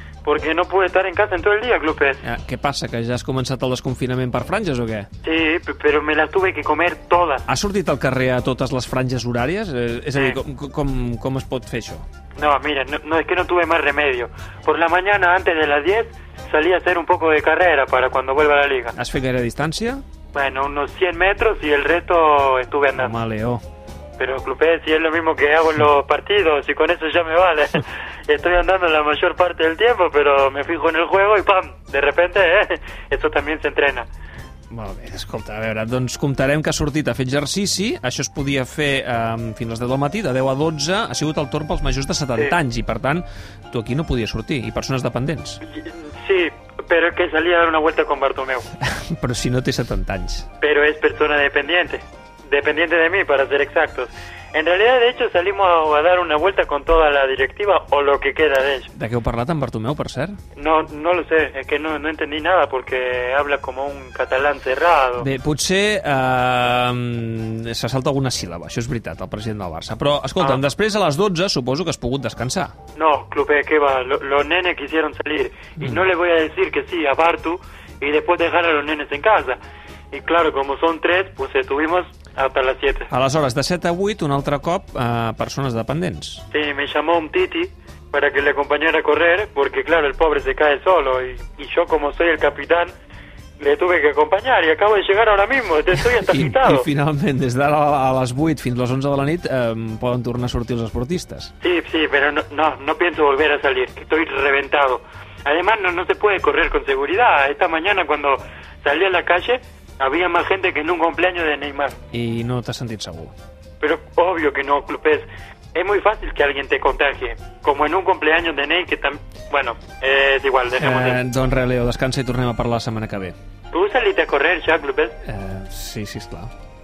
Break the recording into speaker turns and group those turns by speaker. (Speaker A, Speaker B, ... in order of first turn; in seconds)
Speaker A: 0.2-2.2, 5.2-7.5, 10.1-10.4, 12.4-18.9, 20.3-23.2, 24.2-34.1, 45.6-48.7, 50.6-58.9, 60.5-65.3, 70.4-70.7, 73.0-79.6, 80.1-83.1, 86.5-92.9, 93.6-96.9, 101.6-112.0, 113.8-121.2, 123.7-125.2
Speaker B: 2.2-5.1, 7.5-12.0, 18.9-20.0, 22.9-23.6, 34.7-45.6, 48.8-50.5, 58.9-60.4, 65.2-72.7, 75.8-76.0, 83.1-86.4, 96.2-101.5, 112.1-113.3, 120.8-123.3, 125.2-126.5